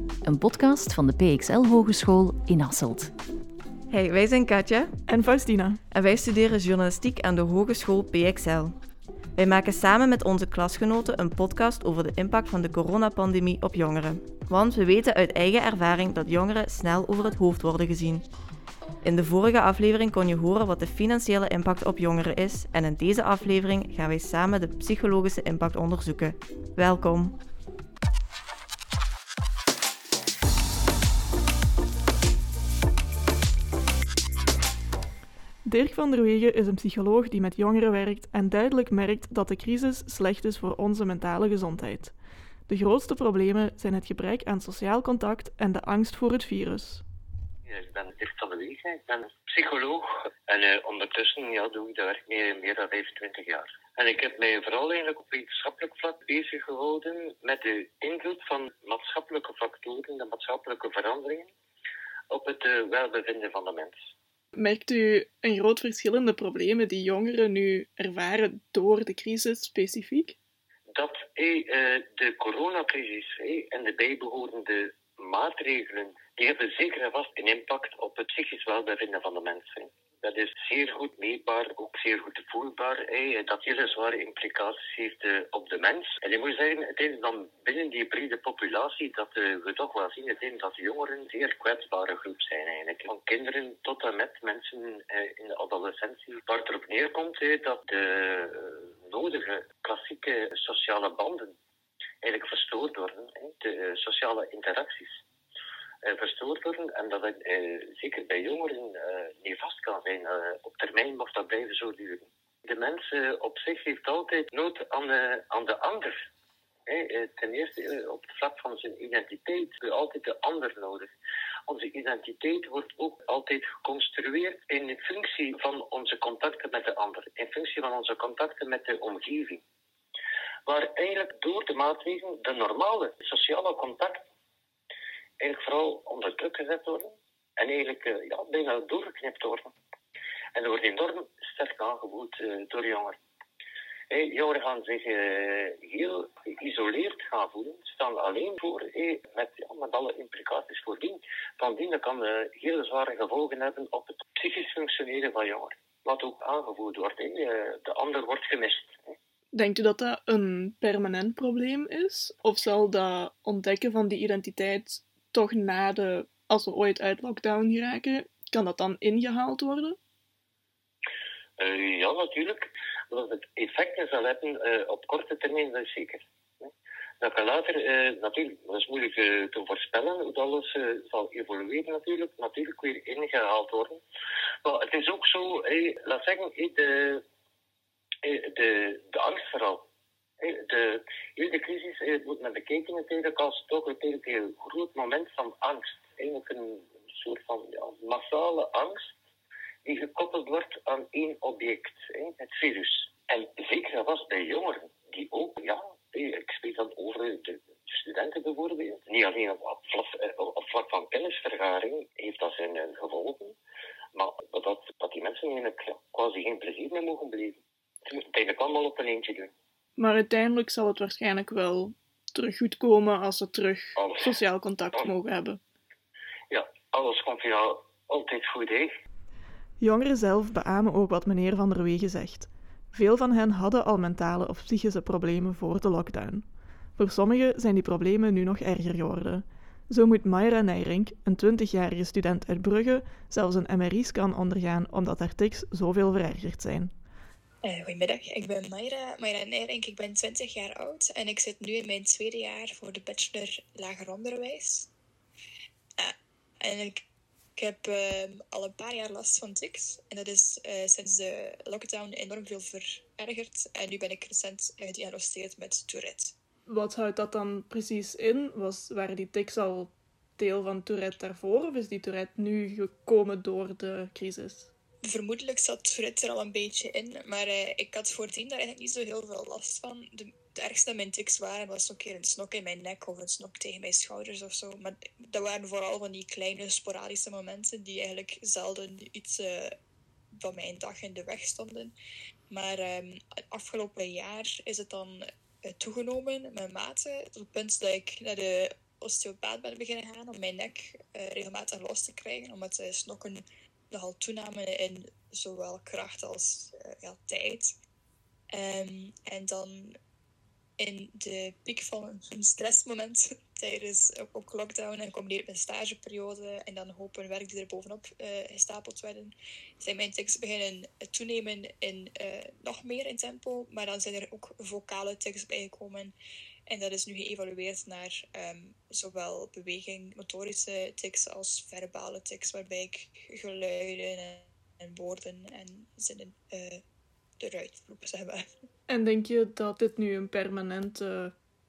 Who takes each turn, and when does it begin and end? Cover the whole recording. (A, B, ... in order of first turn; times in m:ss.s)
0:00.2-0:03.1 A
0:03.9-0:04.9 B
0:05.1-0:05.8 C
0:05.9-0:08.8 B
0:09.4-0:18.3 B
0:19.0-0:27.3 B
0:35.6-0:42.2 C
0:42.7-0:47.0 C
0:47.7-1:01.5 D
1:02.3-1:04.0 D
1:04.5-1:10.4 C
1:10.9-1:41.5 D
1:42.2-1:45.2 D
1:46.0-1:56.2 D
1:56.9-2:01.1 D
2:01.7-2:09.6 D
2:10.7-2:14.2 D
2:15.4-2:19.7 D
2:20.5-2:23.2 D
2:24.1-2:39.0 D
2:39.5-2:50.0 C
2:51.6-2:56.7 D
2:57.2-3:04.0 D
3:04.6-3:07.2 D
3:08.2-3:09.8 D
3:10.4-3:19.1 D
3:19.8-3:33.6 D
3:34.1-3:37.6 D
3:38.1-3:39.5 D
3:40.0-3:45.6 C
3:44.0-3:44.4 D
3:46.5-3:48.9 D
3:49.8-4:06.9 C
4:07.7-4:14.9 E
4:16.0-4:17.0 E
4:17.6-4:26.3 E
4:26.7-4:34.7 C
4:35.1-4:49.8 E
4:50.4-4:51.9 E
4:52.5-5:07.7 E
5:08.5-5:09.9 E
5:10.8-5:26.1 E
5:26.7-5:36.8 E
5:37.4-5:38.4 E
5:38.9-5:41.4 C